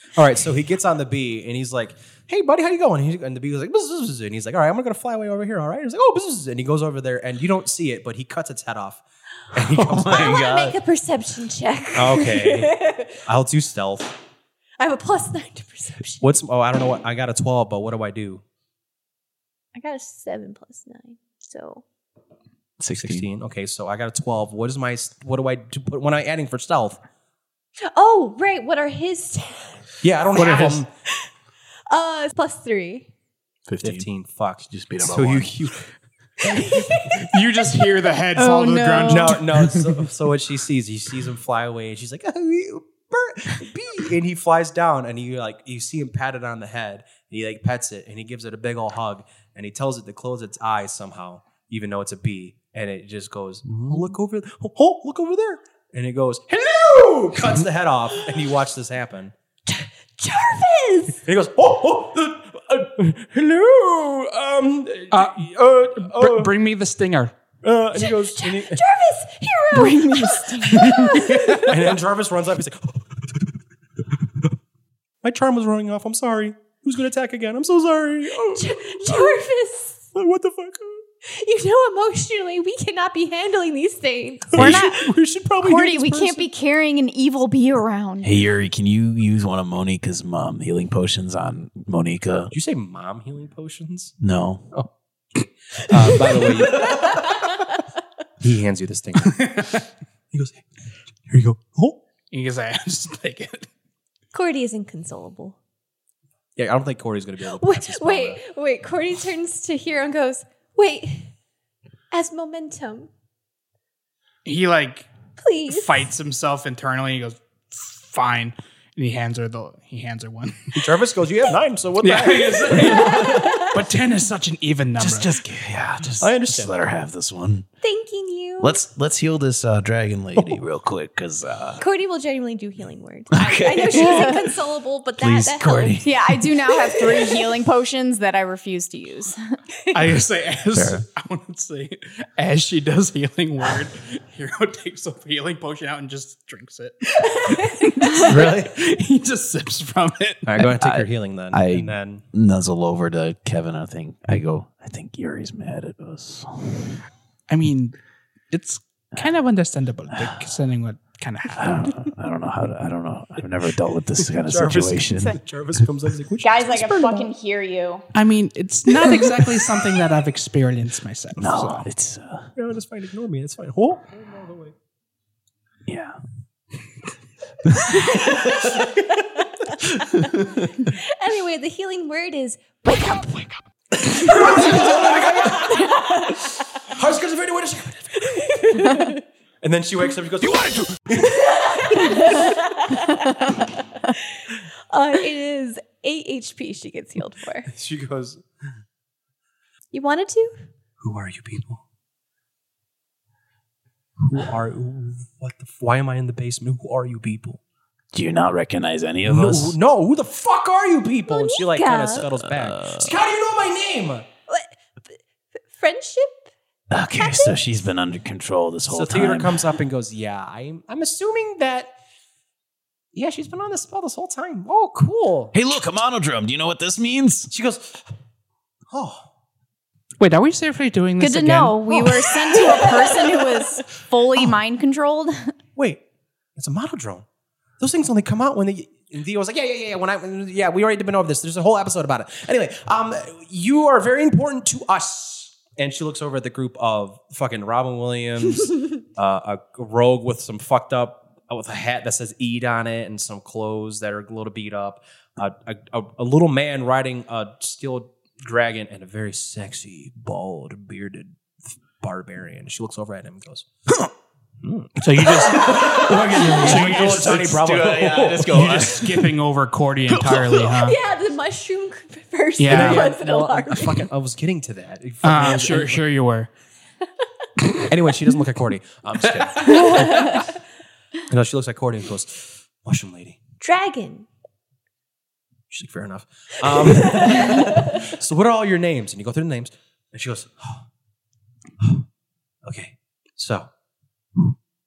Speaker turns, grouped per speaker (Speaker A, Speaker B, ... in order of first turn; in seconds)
Speaker A: 0.1-9.0, 9.5-10.4, 11.9-14.1, 16.2-18.4, 22.9-27.0, 30.0-30.9, 33.8-35.8, 39.0-59.3, 61.2-66.6, 67.6-68.8, 71.1-73.5, 75.2-79.4, 80.1-81.0, 84.5-86.5, 92.5-94.1, 95.8-97.4, 98.4-99.8, 100.3-100.6, 101.3-102.0, 106.6-108.4, 120.7-123.3, 126.2-126.7, 148.2-148.7, 150.4-152.2, 164.3-167.3, 169.2-169.6, 172.6-174.7, 178.4-179.0, 184.1-186.0, 186.8-188.4, 189.6-192.4, 197.7-198.4, 201.0-201.8, 204.2-207.6, 209.2-214.2, 218.9-221.9, 223.1-225.5, 227.5-228.1, 228.9-229.3, 235.8-236.0, 236.6-237.2, 237.8-261.3, 262.0-263.7, 264.6-268.8, 272.7-276.1, 277.8-280.5, 281.3-283.4, 285.7-290.8, 292.6-293.7
Speaker B: 9.6-10.8, 22.8-23.3, 33.7-34.1, 34.7-35.5, 53.7-54.1, 84.6-84.9, 88.2-92.5, 94.2-94.7, 125.0-127.7, 128.6-131.8, 133.3-134.4, 135.2-136.5, 140.7-141.0, 150.6-157.0, 161.5-165.4, 171.4-172.5, 175.8-176.2, 180.1-180.6, 208.1-209.8, 212.3-213.1, 216.9-219.7, 225.5-227.5, 265.4-269.3, 270.1-270.8
Speaker C: 10.1-13.2, 14.8-16.4, 19.7-21.8, 27.8-29.8, 31.9-33.1, 36.4-37.4, 59.7-61.2, 67.9-71.7, 78.4-80.0, 81.2-84.8, 96.8-97.4, 104.3-105.6, 107.5-111.3, 112.1-113.1, 115.4-115.9, 122.8-123.8, 127.8-128.8, 131.8-136.0, 178.1-178.4, 180.8-183.5, 184.0-186.5, 188.2-189.2, 191.5-197.7, 199.9-200.6, 211.3-212.3, 214.5-214.8, 215.7-216.5, 217.2-217.6, 270.8-274.1, 279.7-280.3, 283.6-284.3, 287.0-288.0
Speaker D: 30.3-30.8, 37.1-39.7, 65.1-67.3, 70.9-71.8, 99.3-99.8, 102.3-103.7, 114.4-115.1, 115.7-120.7, 122.0-125.3, 139.9-150.6, 157.5-158.0, 158.5-162.0, 168.1-171.9, 230.2-232.8, 265.0-267.4, 268.5-271.0, 272.6-273.1, 275.2-276.5
Speaker E: 38.3-39.4, 69.7-71.0, 84.6-85.1, 85.6-88.3, 133.9-134.4, 136.0-139.4, 166.4-168.1, 231.2-235.5